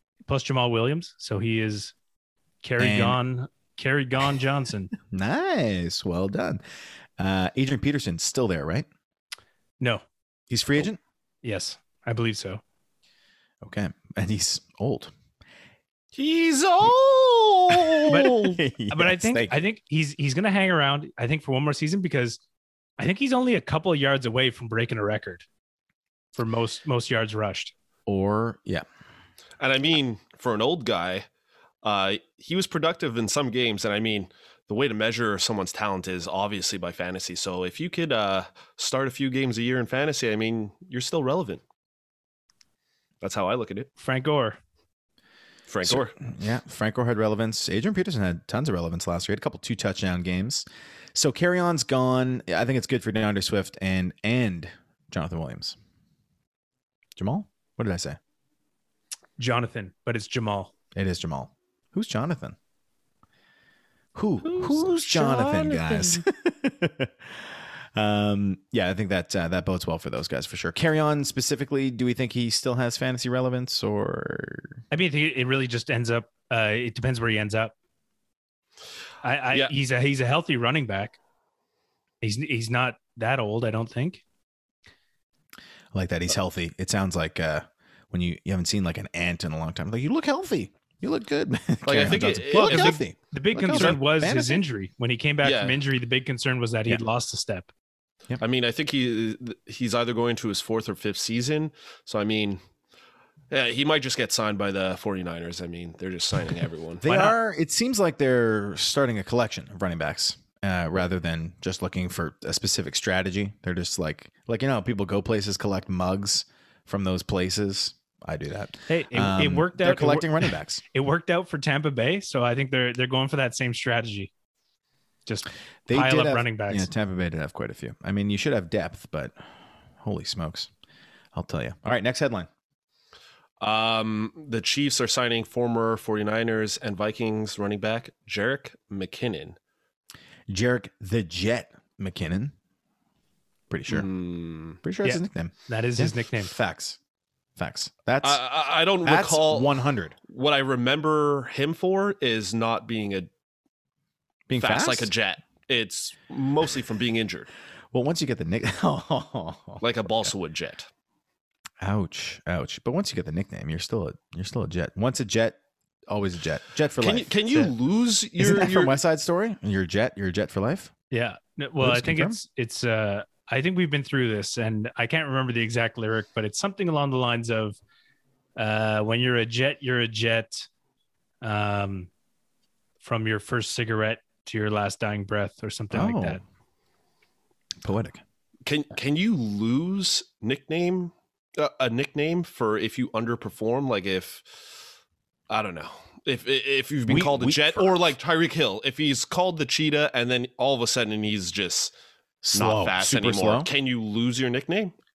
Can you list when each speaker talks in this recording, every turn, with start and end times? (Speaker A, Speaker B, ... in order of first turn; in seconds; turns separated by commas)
Speaker A: 0.3-1.9, Speaker A: 2.6-4.9, Speaker B: 2.8-3.2, Speaker B: 5.1-6.6, Speaker B: 7.2-8.8, Speaker B: 10.5-11.0, Speaker A: 11.4-12.6, Speaker B: 13.6-15.1, Speaker C: 16.1-18.4, Speaker B: 17.7-19.6, Speaker A: 18.1-22.4, Speaker A: 23.0-25.4, Speaker A: 26.3-27.7, Speaker B: 28.1-28.8, Speaker C: 29.6-31.3, Speaker C: 31.8-41.6, Speaker C: 43.2-43.9, Speaker A: 44.0-44.6, Speaker C: 45.7-46.1, Speaker B: 45.8-55.8, Speaker B: 57.2-58.2, Speaker A: 59.4-60.7, Speaker B: 61.0-62.5, Speaker B: 64.1-74.8, Speaker C: 64.4-66.2, Speaker A: 74.9-77.7, Speaker A: 79.2-81.2, Speaker A: 82.2-84.2, Speaker B: 85.9-94.6, Speaker C: 91.8-93.0, Speaker A: 92.5-97.7, Speaker C: 93.7-94.0, Speaker C: 95.4-95.8, Speaker C: 98.4-102.6, Speaker C: 103.5-107.0, Speaker B: 107.0-120.8, Speaker A: 107.0-107.3, Speaker A: 118.9-124.3, Speaker A: 125.2-126.9, Speaker B: 125.9-129.3, Speaker B: 130.0-130.7, Speaker B: 131.3-132.5, Speaker C: 133.6-139.6, Speaker B: 140.5-142.5, Speaker B: 143.7-144.1, Speaker C: 143.9-144.8, Speaker B: 144.8-147.0, Speaker A: 145.0-146.5, Speaker B: 147.6-148.4, Speaker C: 148.2-153.3, Speaker B: 149.0-150.1, Speaker B: 154.5-155.1, Speaker C: 154.6-157.5, Speaker B: 157.9-159.8, Speaker C: 159.8-160.9, Speaker B: 161.8-165.6, Speaker B: 166.1-167.7, Speaker C: 167.0-169.0, Speaker B: 168.4-170.9, Speaker A: 171.1-177.8, Speaker B: 171.8-172.4, Speaker A: 178.6-180.7, Speaker A: 181.4-182.1, Speaker A: 183.0-186.4, Speaker B: 185.9-186.4, Speaker B: 187.8-188.2, Speaker C: 188.7-194.4, Speaker C: 195.5-201.9, Speaker B: 197.1-197.9, Speaker B: 202.4-203.7, Speaker C: 202.5-204.9